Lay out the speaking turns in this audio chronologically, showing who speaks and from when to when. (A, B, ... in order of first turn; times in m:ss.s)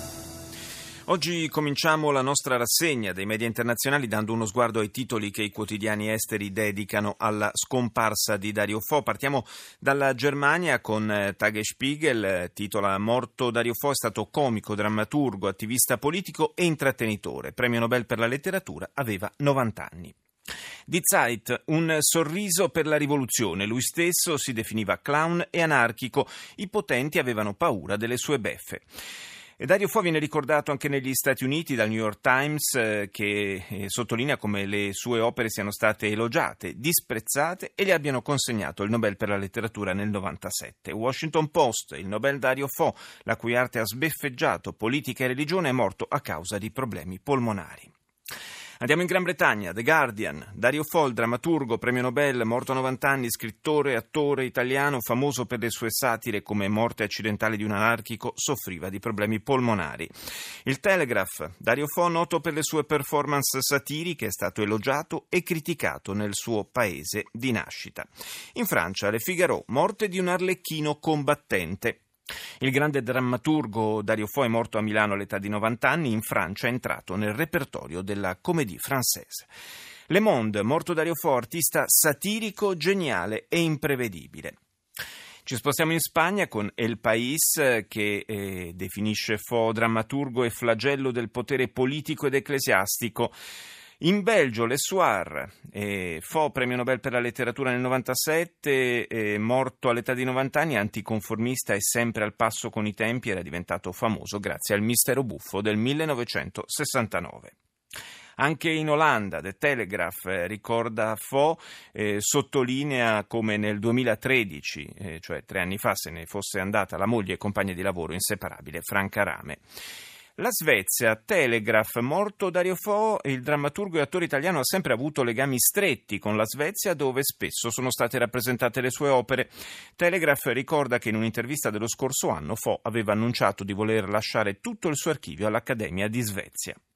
0:01.1-0:20.1 A
0:20.9-0:28.9 A
0:29.6-0:47.9 A
0:48.8-1:00.1 A
1:00.6-1:12.0 A
1:12.6-1:19.5 A
1:20.1-1:24.6 A
1:25.4-1:33.3 A
1:34.0-1:47.5 A
1:48.4-1:59.6 A
2:00.4-2:16.8 A